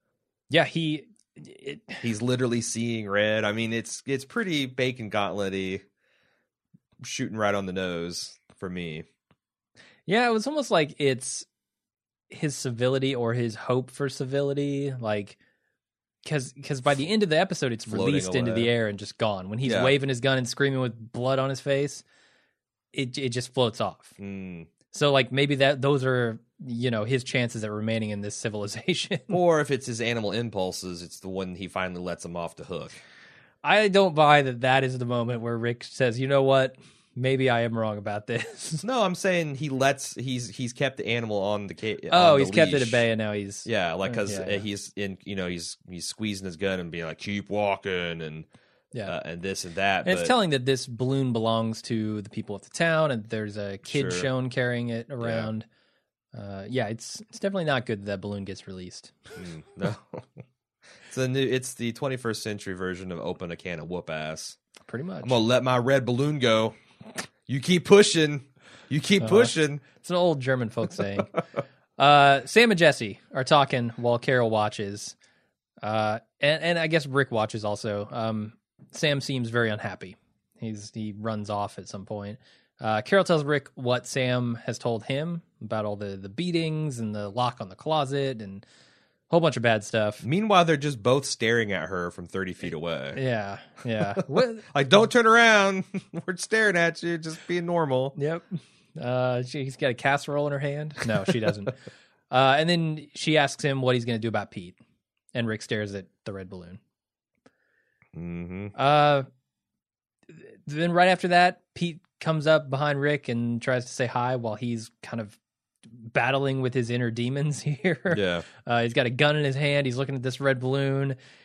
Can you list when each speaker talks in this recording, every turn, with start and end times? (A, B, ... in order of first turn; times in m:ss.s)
0:00.5-0:02.0 A
0:02.0-0:05.8 B
0:07.0-0:09.0 B
0:10.1-0:11.5 A
0:12.3-0:15.4 A
0:16.2-0:22.0 A
0:17.9-0:18.7 B
0:19.6-0:19.9 B
0:22.9-0:24.2 A
0:24.2-0:24.7 B
0:24.9-0:29.4 A
0:29.3-0:33.0 B
0:33.6-0:38.8 A
0:38.8-0:43.0 B
0:42.1-0:44.6 A
0:43.6-0:48.5 B
0:49.0-0:50.3 B
0:50.0-0:55.6 A
0:53.9-0:54.3 B
0:55.2-0:55.5 B
0:56.3-0:59.1 A
0:59.4-1:00.3 B
1:01.1-1:04.6 B
1:04.9-1:05.4 A
1:05.2-1:06.8 B
1:07.5-1:09.8 B
1:09.2-1:11.3 A
1:12.0-1:15.1 A
1:15.8-1:28.6 A
1:29.3-1:30.2 A
1:30.2-1:33.2 B
1:33.1-1:34.6 A
1:34.2-1:38.2 B
1:38.2-1:41.8 A
1:42.3-1:44.8 A
1:45.3-1:46.8 A
1:48.1-1:48.7 B
1:48.7-1:49.2 A
1:50.3-1:55.4 A
1:56.0-2:01.2 A
1:58.1-1:58.4 B